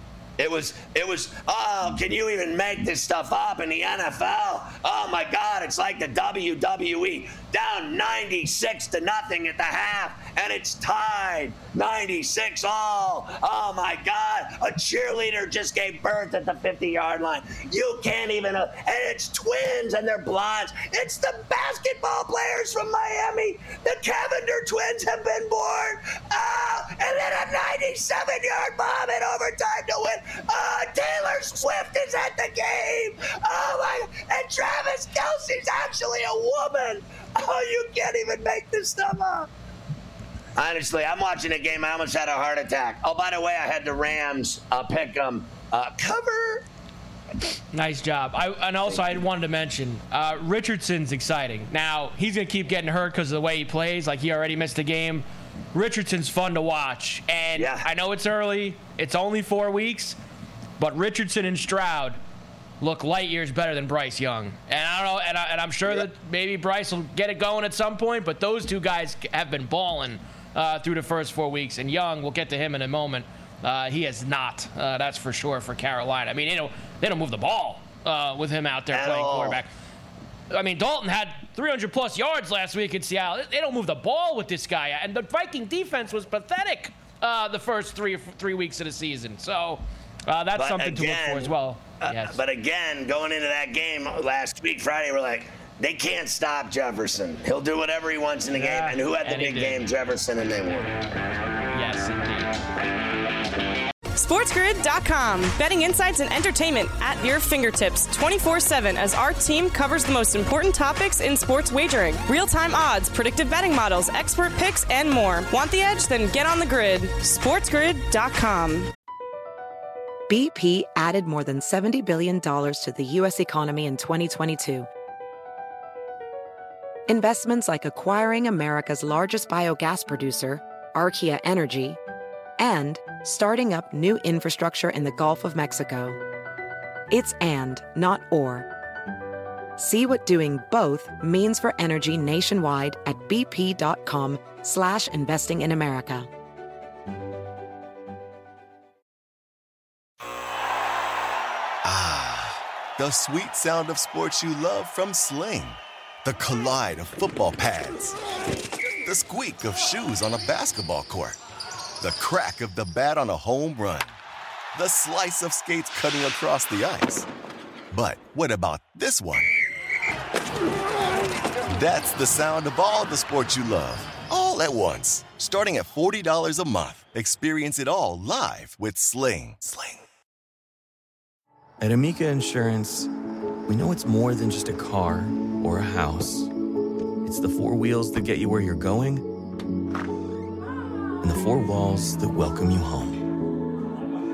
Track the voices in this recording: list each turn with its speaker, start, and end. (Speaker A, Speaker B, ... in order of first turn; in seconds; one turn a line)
Speaker A: 0.4-39.5
Speaker A: 40.6-46.7
Speaker B: 47.7-60.2
Speaker A: 48.9-49.2
Speaker A: 57.5-57.9
Speaker B: 60.8-62.2
Speaker B: 62.8-79.7
Speaker A: 78.9-79.6
Speaker B: 80.5-92.4
Speaker A: 90.6-101.0
Speaker B: 98.5-99.8
Speaker B: 101.7-102.5
Speaker C: 104.2-118.9
Speaker D: 120.3-124.9
Speaker D: 127.1-132.0
Speaker D: 132.6-136.2
Speaker D: 137.1-138.7
Speaker D: 139.8-146.3
Speaker E: 151.8-158.2
Speaker E: 159.0-161.4
Speaker E: 162.0-164.2
Speaker E: 164.7-167.3
Speaker E: 167.9-169.6
Speaker E: 171.7-180.0
Speaker F: 181.8-183.1
Speaker F: 183.7-186.5
Speaker F: 187.2-189.3
Speaker F: 191.2-193.3